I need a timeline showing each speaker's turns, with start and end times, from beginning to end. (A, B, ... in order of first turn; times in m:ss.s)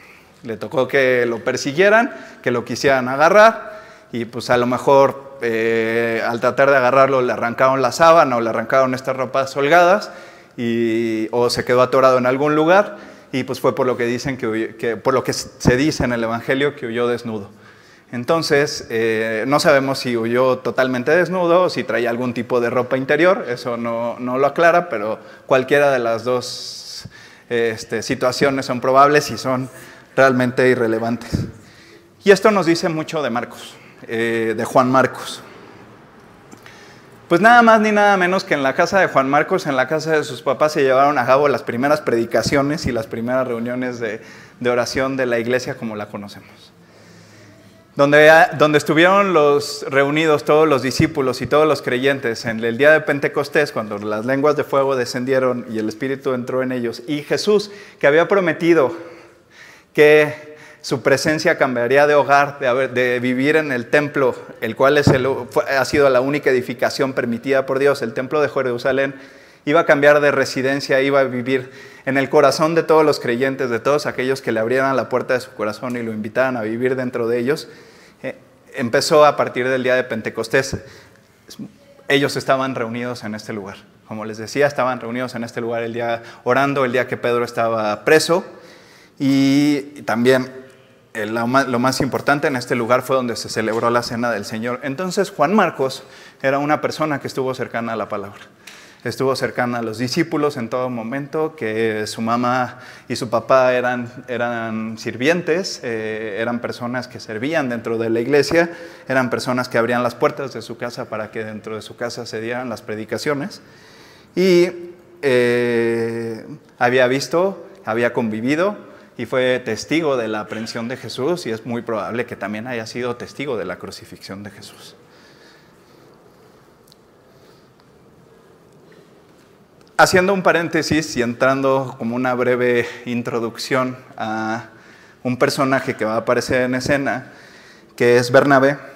0:00.4-0:17.5 A
0:18.1-0:31.4 A
0:32.2-0:35.4 A
0:37.3-0:46.7 A
0:48.0-0:59.0 A
0:59.9-1:17.7 A
1:18.2-1:20.8 A
1:21.6-1:28.5 A
1:29.2-1:30.5 A
1:31.1-1:38.4 A
1:39.0-1:53.6 A
1:54.3-2:05.0 A
2:10.0-2:14.7 A
2:15.2-2:17.3 A
2:18.0-2:18.8 A